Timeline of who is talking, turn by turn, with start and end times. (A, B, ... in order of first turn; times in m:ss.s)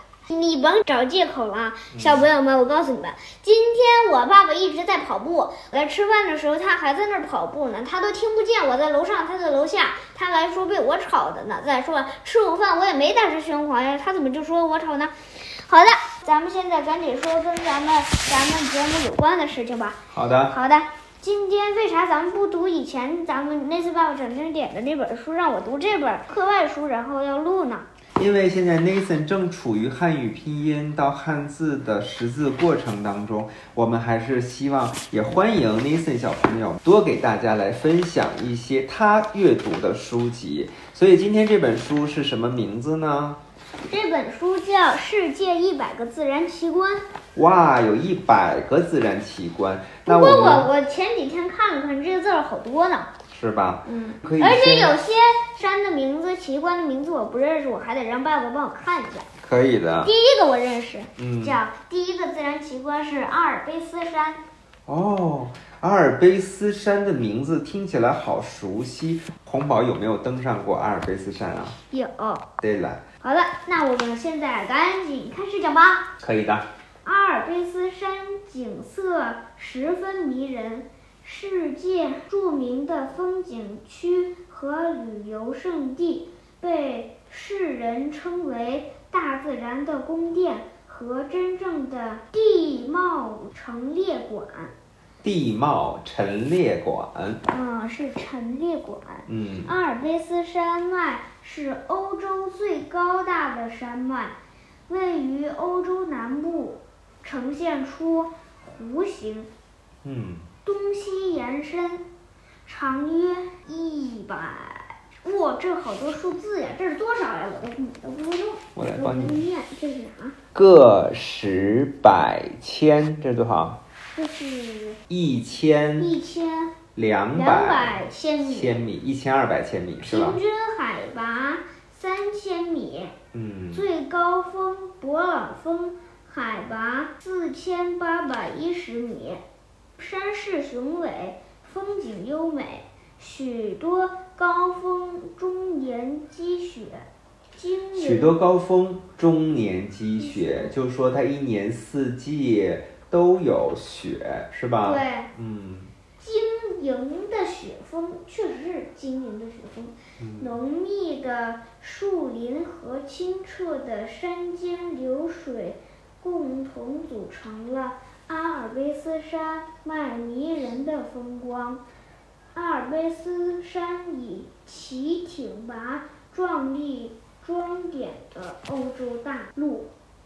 0:00.3-0:27.8 A
0:01.9-0:02.2 B
0:20.1-0:20.5 B
0:28.2-0:43.4 B
0:43.9-0:47.0 A
0:47.4-0:50.7 B
0:50.0-0:53.1 A
0:53.3-0:55.0 B
0:53.8-0:59.3 A
0:59.4-1:00.1 B
1:00.0-1:04.4 A
1:01.2-1:01.6 B
1:04.9-1:11.8 B
1:11.9-1:12.5 A
1:12.6-1:13.0 B
1:13.2-1:16.1 A
1:16.2-1:16.7 B
1:17.0-1:34.7 A
1:35.2-1:37.4 B
1:37.5-1:44.3 A
1:39.3-1:39.7 B
1:44.9-1:49.5 A
1:50.0-1:50.4 B
1:50.6-1:52.1 A
1:52.6-2:00.4 A
1:58.8-1:59.4 B
2:00.5-2:03.8 B
2:04.1-2:05.0 A
2:05.1-2:06.1 B
2:06.0-2:06.8 A
2:07.0-2:10.4 B
2:07.3-2:08.8 A
2:10.0-2:13.1 A
2:13.3-2:13.8 B
2:13.7-2:19.4 A
2:20.0-2:28.3 A
2:28.0-2:35.9 B
2:30.2-2:30.7 A
2:34.8-2:35.3 A
2:36.2-2:51.8 A
2:40.2-2:40.5 B
2:52.5-2:59.9 A